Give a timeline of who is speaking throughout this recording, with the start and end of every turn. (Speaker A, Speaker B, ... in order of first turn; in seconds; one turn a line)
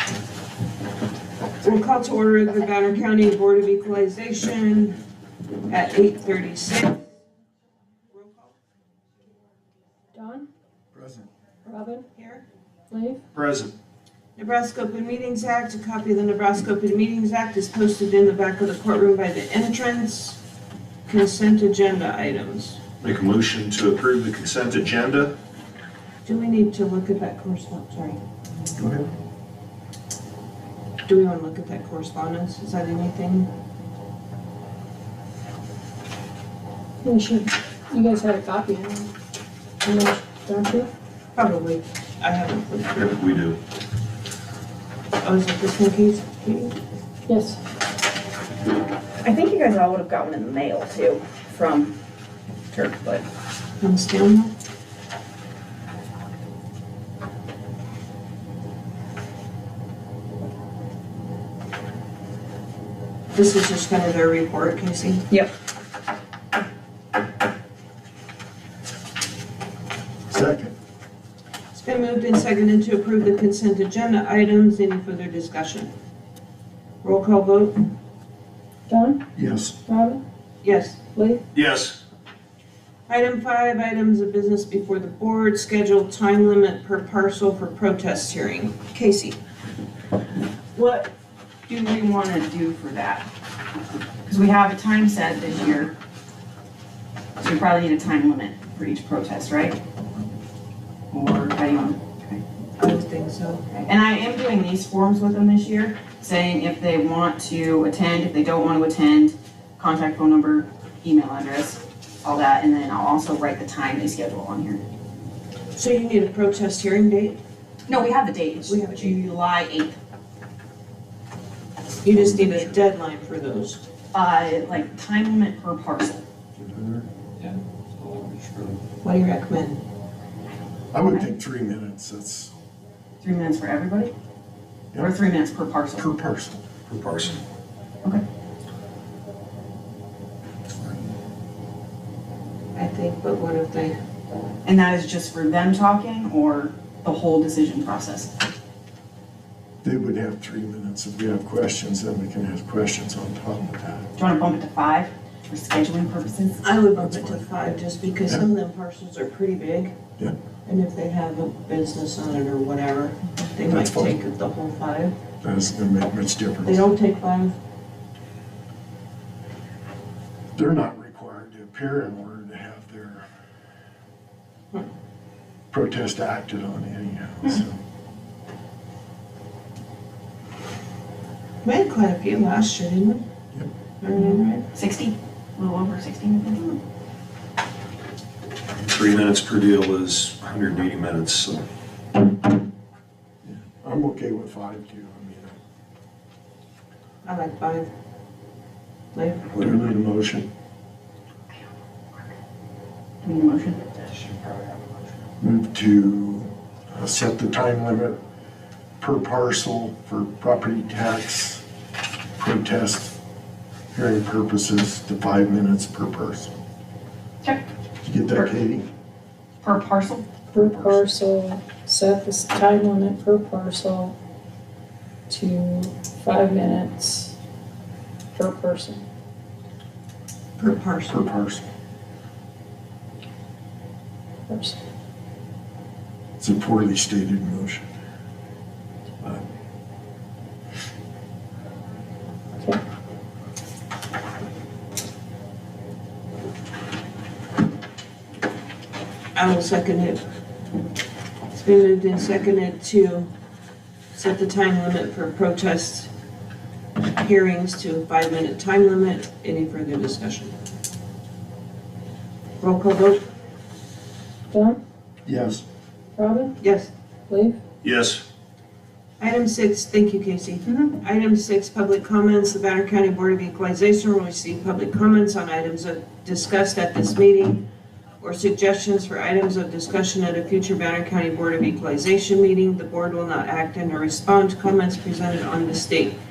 Speaker A: 1.6-5.0
Speaker A: 5.7-7.0
Speaker A: 8.1-8.5
Speaker B: 10.1-10.5
Speaker C: 10.9-11.3
Speaker B: 11.6-12.1
Speaker A: 12.1-12.4
Speaker B: 12.9-13.2
Speaker D: 13.3-13.8
Speaker A: 14.3-20.4
Speaker A: 21.1-22.8
Speaker D: 23.0-25.3
Speaker A: 26.2-28.2
Speaker C: 28.8-29.1
Speaker A: 31.0-33.5
Speaker B: 37.0-39.1
Speaker B: 39.8-40.9
Speaker A: 41.3-43.1
Speaker D: 42.9-43.6
Speaker A: 45.2-46.7
Speaker B: 47.3-47.6
Speaker E: 49.2-51.9
Speaker E: 52.7-53.2
Speaker A: 53.8-54.5
Speaker A: 63.3-65.2
Speaker C: 70.3-70.7
Speaker A: 71.7-75.9
Speaker A: 77.0-77.8
Speaker B: 78.9-79.2
Speaker C: 79.3-79.8
Speaker B: 79.8-80.2
Speaker A: 80.6-81.0
Speaker B: 81.1-81.4
Speaker D: 81.5-82.0
Speaker A: 83.1-89.4
Speaker E: 90.7-91.1
Speaker E: 91.7-93.2
Speaker E: 94.3-95.9
Speaker E: 97.4-99.8
Speaker E: 101.1-102.4
Speaker A: 102.8-103.7
Speaker E: 103.8-114.8
Speaker A: 115.7-117.4
Speaker E: 117.9-120.0
Speaker A: 118.7-119.2
Speaker A: 122.0-123.8
Speaker C: 122.1-122.6
Speaker E: 124.1-126.2
Speaker D: 126.6-128.8
Speaker A: 129.0-129.8
Speaker C: 130.9-132.5
Speaker E: 133.2-134.1
Speaker C: 134.9-135.2
Speaker E: 134.9-136.1
Speaker C: 135.9-136.7
Speaker D: 136.9-137.4
Speaker A: 142.7-144.0
Speaker E: 144.6-148.3
Speaker C: 149.8-154.1
Speaker E: 154.1-156.6
Speaker A: 156.6-159.9
Speaker C: 156.9-157.5
Speaker A: 160.7-165.1
Speaker C: 163.7-164.2
Speaker C: 165.4-166.8
Speaker A: 166.6-167.6
Speaker C: 170.5-173.2
Speaker C: 175.7-177.8
Speaker A: 181.6-183.2
Speaker A: 184.0-184.6
Speaker E: 184.1-186.8
Speaker D: 188.8-191.7
Speaker C: 193.4-195.6
Speaker A: 197.2-197.9
Speaker A: 199.1-199.5
Speaker D: 199.5-199.9
Speaker C: 199.6-200.5
Speaker E: 203.2-204.0
Speaker D: 204.2-204.7
Speaker C: 205.4-208.2
Speaker C: 209.0-211.6
Speaker C: 212.4-213.1
Speaker C: 213.9-216.5
Speaker C: 218.0-218.9
Speaker E: 219.6-220.3
Speaker B: 220.5-224.1
Speaker C: 220.5-221.1
Speaker B: 225.3-227.3
Speaker B: 228.3-229.0
Speaker A: 230.6-231.3
Speaker C: 231.1-231.7
Speaker B: 234.5-234.8
Speaker C: 236.4-237.9
Speaker A: 249.3-250.2
Speaker A: 251.5-253.3
Speaker A: 254.1-256.1
Speaker A: 257.1-260.5
Speaker A: 262.6-263.2
Speaker B: 264.5-264.8
Speaker C: 265.2-265.6
Speaker B: 266.1-266.5
Speaker A: 266.6-266.9
Speaker B: 267.3-267.6
Speaker D: 267.8-268.2
Speaker A: 269.2-277.6
Speaker A: 278.2-286.1